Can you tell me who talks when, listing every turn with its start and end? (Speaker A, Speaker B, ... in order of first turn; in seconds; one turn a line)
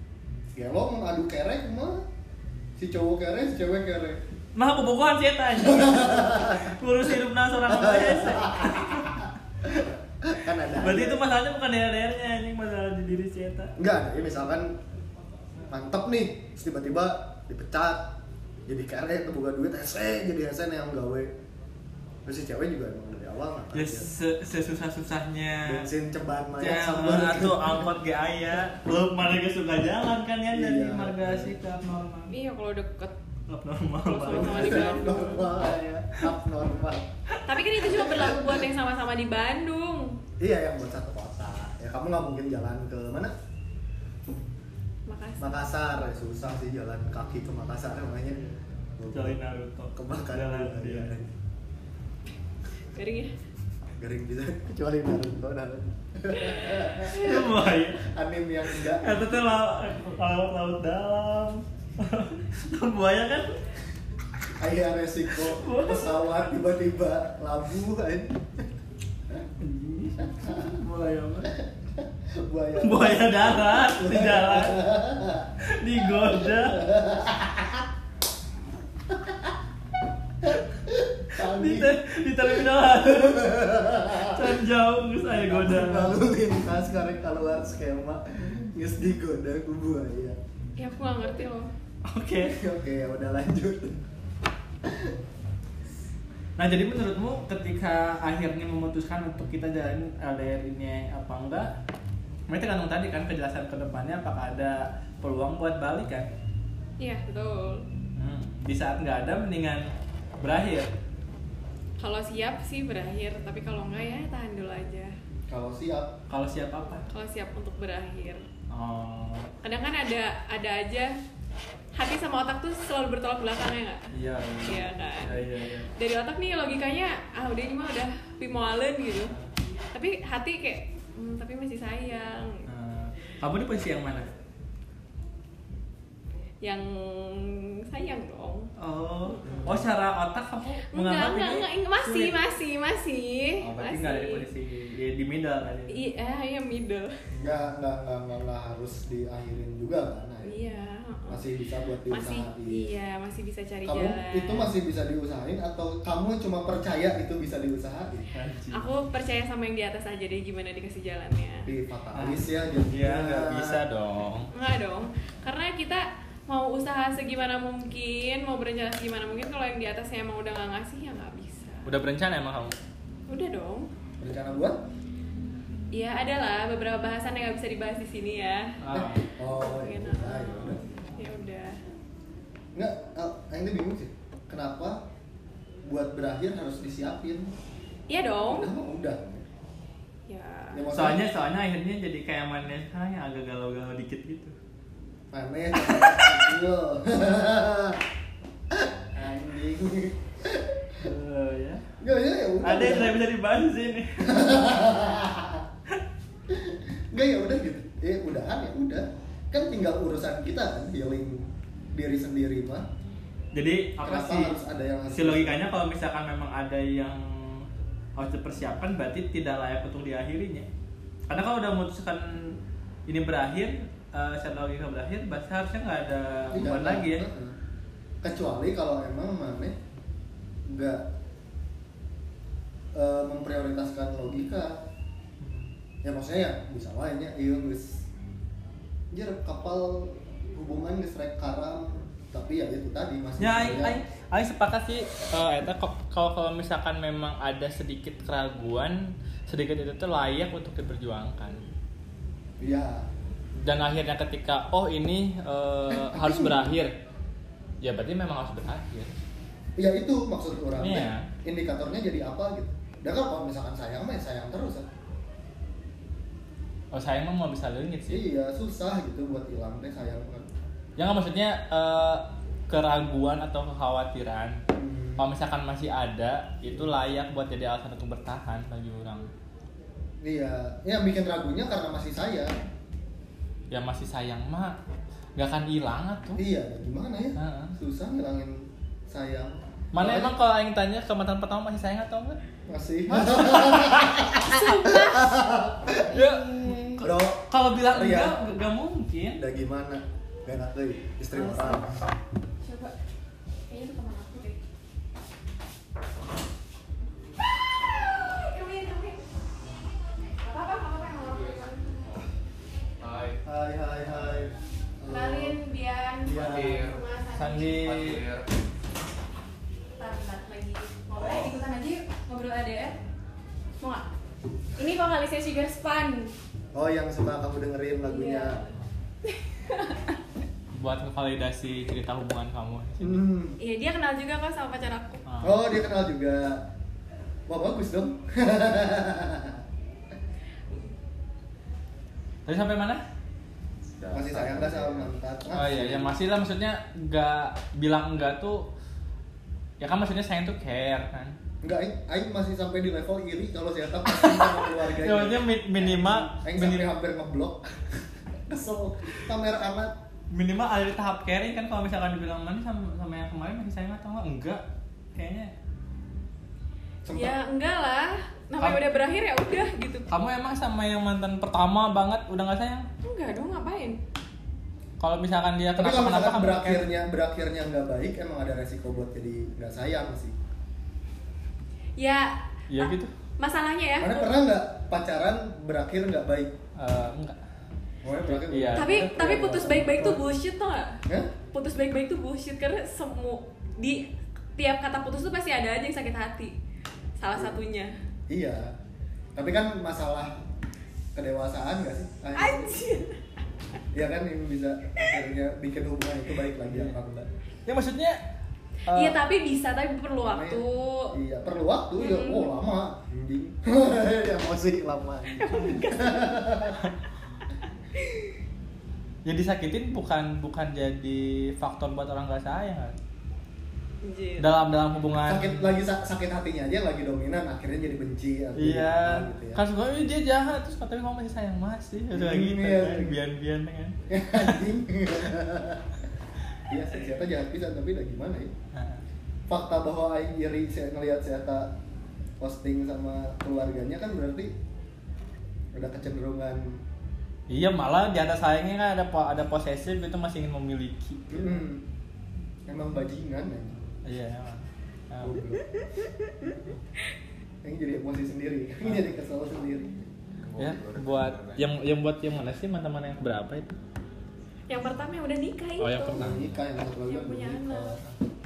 Speaker A: 0.6-2.0
Speaker A: 2.8-4.2
Speaker B: 4.5-9.2
Speaker A: 5.6-6.8
Speaker A: 7.7-11.2
Speaker B: 10.7-13.7
Speaker A: 13.8-14.8
Speaker A: 15.7-21.3
Speaker A: 22.2-24.1
Speaker B: 23.7-25.9
Speaker A: 25.6-27.9
Speaker B: 26.6-32.3
Speaker A: 30.5-31.5
Speaker C: 32.3-33.1
Speaker B: 33.5-35.5
Speaker C: 34.0-35.5
Speaker A: 34.3-37.1
Speaker C: 37.5-40.2
Speaker A: 37.8-38.5
Speaker A: 40.4-43.3
Speaker C: 45.1-45.6
Speaker A: 45.4-49.4
Speaker B: 49.1-51.1
Speaker A: 49.9-51.3
Speaker C: 52.9-53.3
Speaker A: 54.0-57.4
Speaker B: 57.0-58.1
Speaker A: 58.0-59.3
Speaker B: 58.7-63.6
Speaker A: 64.6-68.6
Speaker B: 65.3-66.3
Speaker B: 69.6-71.5
Speaker A: 70.3-70.8
Speaker A: 71.5-75.5
Speaker B: 72.8-74.8
Speaker B: 75.6-76.8
Speaker A: 76.0-77.9
Speaker A: 79.1-79.6
Speaker A: 80.4-82.0
Speaker B: 81.4-86.2
Speaker A: 82.5-84.6
Speaker A: 85.3-90.4
Speaker C: 90.8-91.7
Speaker B: 92.1-92.6
Speaker A: 92.4-94.0
Speaker A: 94.8-95.2
Speaker B: 96.6-101.7
Speaker B: 102.5-106.3
Speaker C: 107.0-107.9
Speaker B: 108.2-109.9
Speaker B: 110.4-110.9
Speaker C: 112.0-115.1
Speaker A: 115.5-116.2
Speaker B: 116.3-117.0
Speaker C: 117.1-118.4
Speaker B: 118.7-119.5
Speaker C: 119.6-121.1
Speaker C: 122.0-124.1
Speaker B: 124.1-125.9
Speaker C: 124.6-129.3
Speaker C: 129.9-132.7
Speaker B: 132.7-134.3
Speaker C: 136.6-138.7
Speaker B: 138.8-142.3
Speaker C: 139.2-139.6
Speaker A: 139.4-139.8
Speaker C: 140.9-144.4
Speaker B: 143.6-146.0
Speaker C: 145.9-147.2
Speaker B: 147.3-147.6
Speaker A: 147.4-150.6
Speaker C: 150.4-151.4
Speaker A: 151.3-152.9
Speaker C: 152.1-154.6
Speaker A: 153.8-158.3
Speaker B: 158.3-158.8
Speaker C: 158.7-161.7
Speaker A: 161.7-163.8
Speaker B: 162.1-164.5
Speaker C: 164.5-171.9
Speaker B: 171.8-172.8
Speaker C: 173.3-173.9
Speaker A: 174.2-174.8
Speaker C: 175.9-178.8
Speaker B: 178.8-179.2
Speaker A: 178.9-180.8
Speaker C: 179.5-181.8
Speaker A: 182.7-185.0
Speaker A: 185.8-187.5
Speaker C: 188.1-188.7
Speaker A: 188.4-189.4
Speaker C: 190.3-190.8
Speaker A: 190.7-191.2
Speaker B: 190.9-194.6
Speaker A: 195.3-198.0
Speaker B: 195.8-196.4
Speaker A: 198.7-201.1
Speaker B: 201.0-201.8
Speaker A: 202.0-203.2
Speaker B: 202.6-204.3
Speaker A: 204.2-205.6
Speaker A: 206.5-212.8
Speaker B: 213.5-214.6
Speaker A: 214.0-215.6
Speaker B: 215.1-220.7
Speaker B: 221.3-227.3
Speaker A: 226.5-227.6
Speaker A: 228.2-229.8
Speaker A: 230.7-231.0
Speaker A: 232.9-234.8
Speaker B: 235.4-235.7
Speaker A: 236.0-238.1
Speaker A: 239.1-244.0
Speaker B: 243.4-251.6
Speaker A: 252.6-253.1
Speaker B: 253.6-256.9
Speaker A: 255.9-256.7
Speaker B: 257.8-259.1
Speaker A: 259.8-264.9
Speaker B: 260.8-261.3
Speaker B: 266.9-268.2
Speaker A: 268.1-270.5
Speaker B: 271.0-274.6
Speaker A: 274.7-275.2
Speaker B: 275.2-279.3
Speaker A: 280.2-282.6
Speaker B: 283.7-284.8
Speaker B: 285.4-286.4
Speaker A: 286.4-290.3
Speaker B: 287.4-287.8
Speaker B: 289.9-292.4
Speaker A: 292.7-296.1
Speaker B: 293.1-294.2
Speaker C: 294.4-295.4
Speaker C: 296.0-297.0
Speaker B: 296.1-299.4
Speaker A: 297.0-298.4
Speaker A: 299.4-302.0
Speaker C: 301.3-301.9
Speaker C: 302.6-302.9
Speaker C: 303.7-304.6
Speaker C: 307.4-309.2
Speaker C: 310.4-312.0
Speaker D: 311.3-312.2
Speaker D: 313.0-313.4
Speaker A: 313.4-315.6
Speaker D: 314.1-314.5
Speaker C: 315.1-317.9
Speaker A: 316.2-316.8
Speaker D: 316.3-317.0
Speaker B: 317.3-318.2
Speaker D: 317.8-318.6
Speaker C: 320.0-323.0
Speaker D: 321.2-321.5
Speaker C: 323.8-324.1
Speaker C: 324.8-326.3
Speaker A: 326.7-328.6
Speaker C: 328.1-328.7
Speaker C: 329.2-330.2
Speaker B: 330.8-333.2
Speaker A: 333.0-333.6
Speaker C: 333.6-335.2
Speaker B: 335.2-335.6
Speaker A: 335.4-336.6
Speaker A: 337.5-339.6
Speaker B: 342.5-343.0
Speaker D: 343.9-345.1
Speaker A: 344.1-346.2
Speaker B: 345.5-348.7
Speaker B: 349.8-351.4
Speaker A: 351.6-357.6
Speaker B: 354.1-356.9
Speaker A: 358.5-359.9
Speaker B: 360.3-365.5
Speaker A: 367.1-367.4
Speaker C: 367.1-370.1
Speaker B: 370.1-372.9
Speaker C: 373.0-374.0
Speaker B: 375.0-376.9
Speaker A: 375.8-380.4
Speaker C: 382.0-384.3
Speaker B: 382.7-383.1
Speaker A: 384.0-386.6
Speaker B: 386.8-387.4
Speaker A: 388.0-390.2
Speaker B: 388.3-389.0
Speaker C: 388.8-391.0
Speaker A: 391.1-391.3
Speaker C: 391.5-396.6
Speaker C: 397.2-397.9
Speaker A: 397.4-397.6
Speaker A: 398.3-398.7
Speaker A: 399.4-400.3
Speaker A: 401.1-402.8
Speaker C: 402.4-403.2
Speaker A: 403.9-407.3
Speaker B: 406.7-407.0
Speaker B: 407.7-408.2
Speaker B: 408.9-409.2
Speaker C: 408.9-411.2
Speaker A: 410.2-416.8
Speaker C: 412.0-412.6
Speaker C: 415.4-416.4
Speaker B: 419.2-423.0
Speaker C: 424.0-424.5
Speaker B: 424.4-425.7
Speaker A: 425.2-429.6
Speaker B: 428.6-434.6
Speaker A: 432.1-433.2
Speaker A: 434.1-435.9
Speaker A: 436.7-438.5
Speaker B: 438.7-439.0
Speaker A: 439.5-441.8
Speaker A: 442.4-444.5
Speaker A: 445.8-446.8
Speaker B: 447.5-451.6
Speaker A: 451.3-451.9
Speaker A: 452.7-453.8
Speaker B: 454.1-455.4
Speaker A: 455.2-455.6
Speaker A: 457.6-460.1
Speaker D: 460.4-461.7
Speaker B: 460.6-463.7
Speaker C: 464.7-466.2
Speaker B: 465.8-466.5
Speaker A: 466.1-468.2
Speaker C: 467.1-468.0